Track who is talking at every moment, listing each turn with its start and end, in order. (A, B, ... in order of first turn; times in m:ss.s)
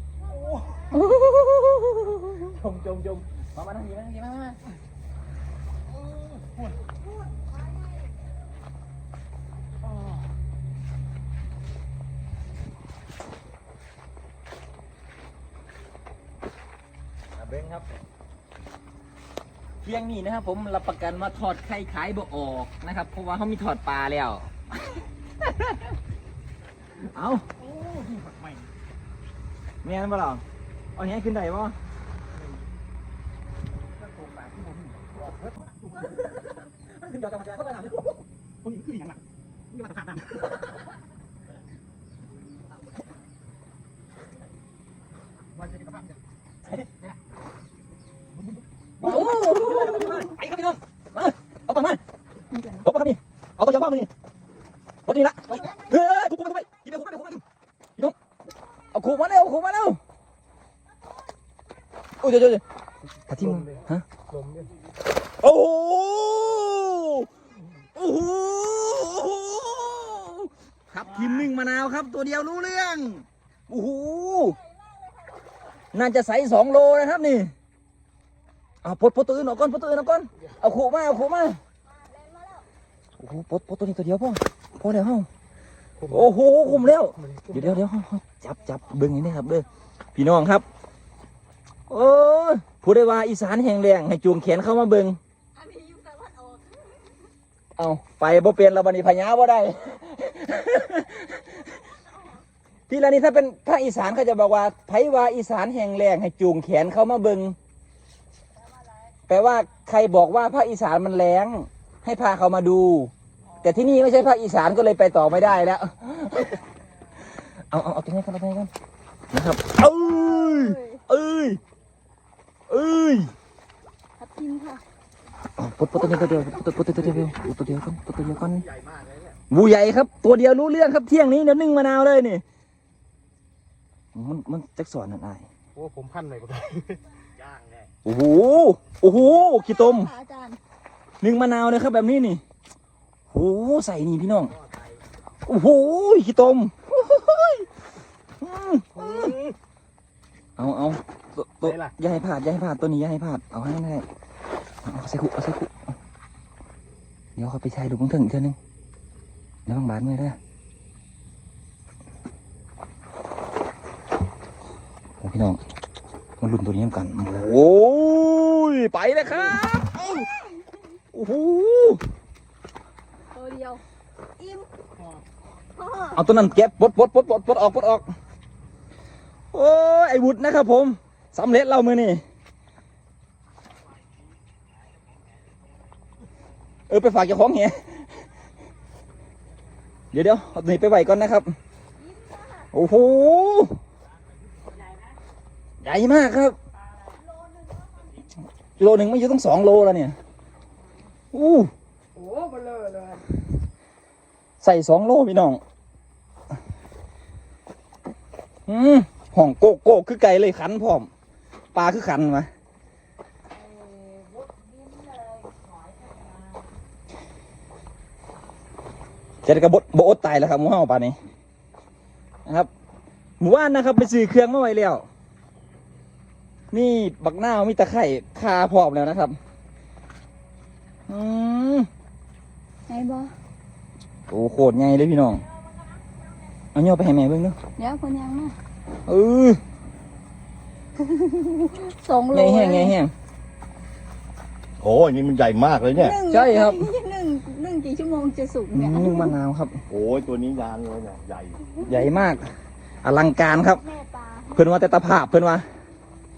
0:00.2-0:00.9 A
0:00.5-0:01.1 B
0:00.9-0:02.0 C
0:02.3-0:04.6 D
0:06.1-0:06.8 A
0:17.4-0:17.9 D
0:19.8-0:25.9 D
0:27.0-0:27.5 D
0:27.6-0:28.6 A
0:29.8-0:30.4 D
0:31.0-0:31.8 D
0:34.0-0:36.1 A
0:36.8-0:39.2 D
0:39.7-0:40.3 D
0:49.0-0:52.0 D
0:52.5-0:52.8 C
0:52.8-0:54.1 D
0:55.1-0:57.4 D
0:58.9-1:00.0 D
1:02.2-1:02.6 D
1:03.3-1:04.1 D
1:03.3-1:04.7 A
1:05.4-1:07.3 D
1:08.0-1:14.6 D
1:15.9-1:17.5 D
1:18.8-1:21.6 D
1:22.1-1:22.7 C
1:23.2-1:25.3 D
1:26.0-1:27.8 A
1:26.1-1:30.7 D
1:31.9-1:35.2 D
1:35.6-1:37.0 C
1:37.8-1:41.6 D
1:42.9-1:47.6 D
1:49.3-1:53.1 D
1:53.6-1:56.6 D
1:57.7-1:58.7 D
1:59.3-2:01.6 D
2:00.0-2:01.0 C
2:02.7-2:03.3 D
2:04.2-2:04.8 C
2:05.6-2:08.7 D
2:08.7-2:09.4 E
2:09.5-2:12.4 D
2:14.1-2:15.5 D
2:15.8-2:17.0 A
2:17.4-2:17.9 E
2:18.0-2:20.1 D
2:19.5-2:20.6 C
2:21.2-2:22.4 D
2:23.3-2:24.6 D
2:25.4-2:27.7 D
2:28.4-2:29.3 D
2:29.0-2:29.6 A
2:30.6-2:34.1 D
2:31.6-2:31.9 A
2:34.8-2:35.7 D
2:37.4-2:38.6 D
2:39.7-2:40.4 D
2:45.2-2:45.6 D
2:46.4-2:50.2 D
2:51.1-2:52.0 D
2:53.3-2:53.8 C
2:54.4-2:54.7 C
2:55.8-2:56.2 C
2:56.1-2:58.1 D
2:59.5-3:02.2 D
3:06.9-3:08.0 D
3:10.1-3:11.6 D
3:12.0-3:12.7 C
3:12.7-3:13.8 D
3:15.8-3:16.6 D
3:18.8-3:20.2 D
3:21.3-3:21.7 D
3:22.1-3:23.2 B
3:24.6-3:25.6 D
3:28.7-3:31.1 D
3:31.7-3:32.5 D
3:33.5-3:36.7 B
3:39.4-3:41.2 D
3:43.4-3:45.1 D
3:46.7-3:49.4 D
3:51.1-3:51.9 D
3:52.9-3:53.3 C
3:54.3-3:55.5 D
3:56.8-3:57.6 D
3:57.8-3:58.6 C
3:59.1-3:59.6 D
4:01.0-4:03.0 C
4:02.3-4:03.1 D
4:04.8-4:06.2 E
4:05.9-4:09.4 C
4:06.3-4:06.9 D
4:08.7-4:09.8 D
4:09.9-4:11.6 E
4:11.8-4:12.5 D
4:13.0-4:13.8 D
4:13.8-4:14.5 C
4:14.5-4:15.6 D